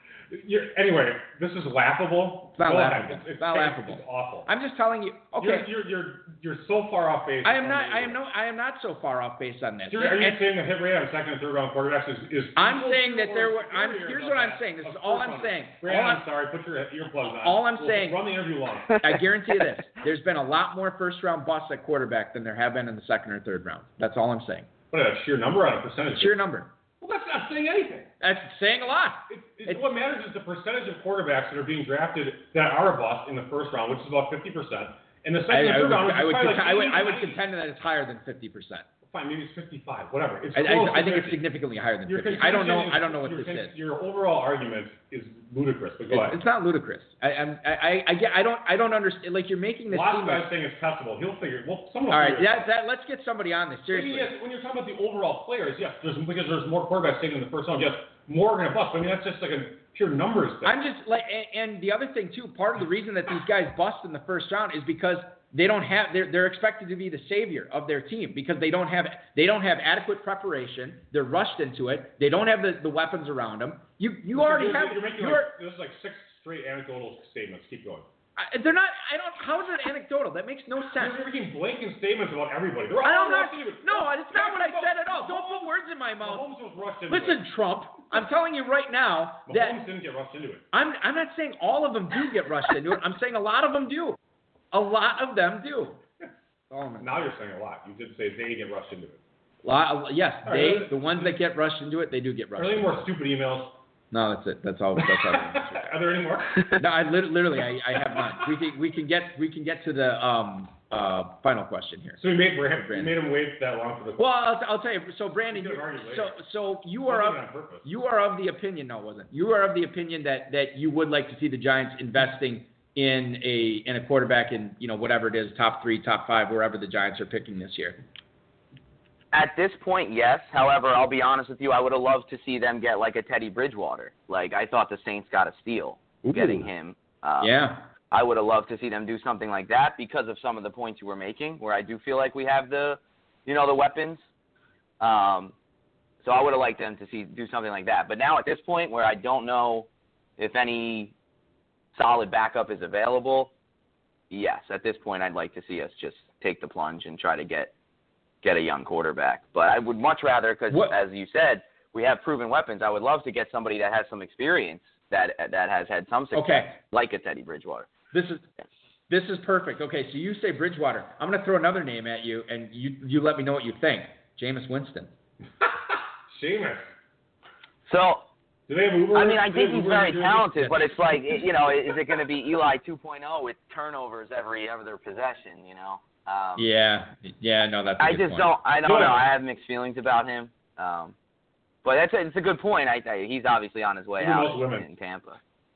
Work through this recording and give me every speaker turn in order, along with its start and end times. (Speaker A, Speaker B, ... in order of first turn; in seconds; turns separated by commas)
Speaker A: 0.3-4.5, Speaker B: 2.6-5.7, Speaker A: 5.4-8.2, Speaker B: 7.4-10.4, Speaker A: 9.9-19.1, Speaker B: 12.6-16.2, Speaker B: 17.2-18.2, Speaker B: 18.9-24.7, Speaker A: 24.9-26.4, Speaker B: 26.1-26.7, Speaker A: 27.0-28.1, Speaker B: 28.2-29.9, Speaker A: 29.3-37.4, Speaker B: 35.5-38.9, Speaker A: 39.1-41.4, Speaker B: 40.5-43.7, Speaker A: 42.1-46.4, Speaker B: 46.1-50.5, Speaker A: 49.9-52.6, Speaker B: 52.1-54.3, Speaker A: 53.9-60.8, Speaker B: 60.6-75.5, Speaker A: 74.3-78.1, Speaker B: 78.4-81.2, Speaker A: 81.0-85.7, Speaker B: 83.0-86.4, Speaker A: 86.2-87.4, Speaker B: 87.1-89.8, Speaker A: 89.5-90.6, Speaker B: 90.7-94.2, Speaker B: 94.7-96.0, Speaker B: 96.7-97.1, Speaker A: 97.0-99.2, Speaker B: 99.6-103.1, Speaker A: 100.4-101.3, Speaker A: 102.6-103.8, Speaker B: 104.1-105.9, Speaker A: 105.1-106.8, Speaker B: 106.7-112.2, Speaker A: 112.2-114.2, Speaker B: 112.8-113.1, Speaker B: 114.2-128.0, Speaker A: 115.5-116.3, Speaker A: 117.1-117.9, Speaker C: 129.3-137.5, Speaker B: 136.2-136.6, Speaker B: 137.4-137.9, Speaker C: 138.1-144.2, Speaker C: 145.0-145.5, Speaker C: 146.2-151.1, Speaker C: 151.9-153.5, Speaker C: 154.3-157.7, Speaker C: 158.4-167.9, Speaker B: 160.7-161.0, Speaker B: 166.3-166.8, Speaker B: 168.1-168.4, Speaker B: 169.1-175.1, Speaker A: 176.3-176.9, Speaker C: 177.9-178.2, Speaker A: 178.7-181.0, Speaker C: 179.1-186.7, Speaker B: 186.6-188.6, Speaker C: 188.0-191.1, Speaker A: 188.8-189.2, Speaker C: 191.8-195.4, Speaker A: 194.2-194.9